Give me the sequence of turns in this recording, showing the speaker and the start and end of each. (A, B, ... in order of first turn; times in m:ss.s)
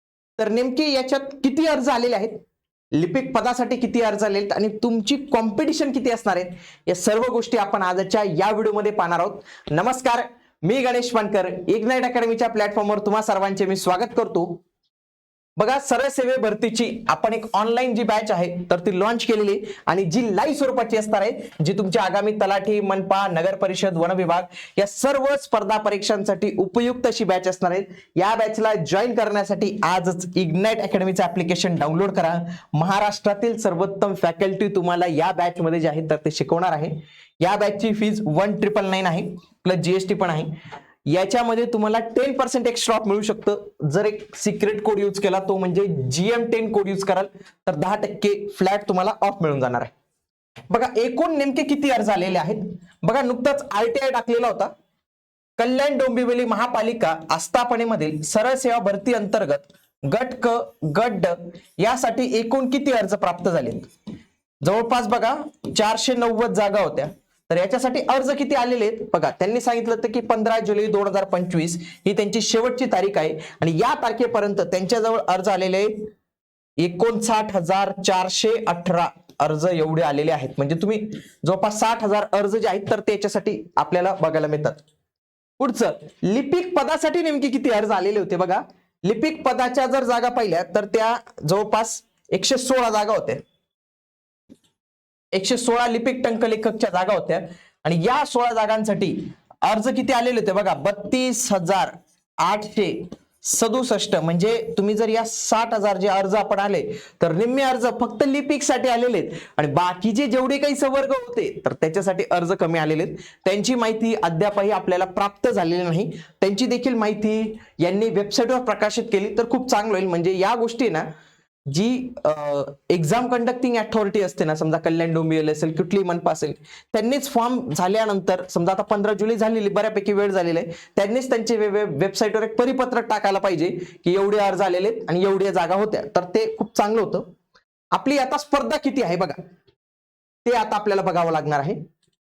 0:00.4-0:02.4 A
0:03.0-0:14.6 A
0:15.6-0:40.5 A
0:41.1-0:49.9 A
0:50.7-0:54.7 A
0:55.6-1:03.9 A
1:04.6-1:16.1 A
1:16.8-1:24.8 A
1:25.6-1:33.4 A
1:35.3-2:01.1 A
2:01.7-2:17.3 A
2:17.9-2:19.4 A
2:20.4-2:21.8 A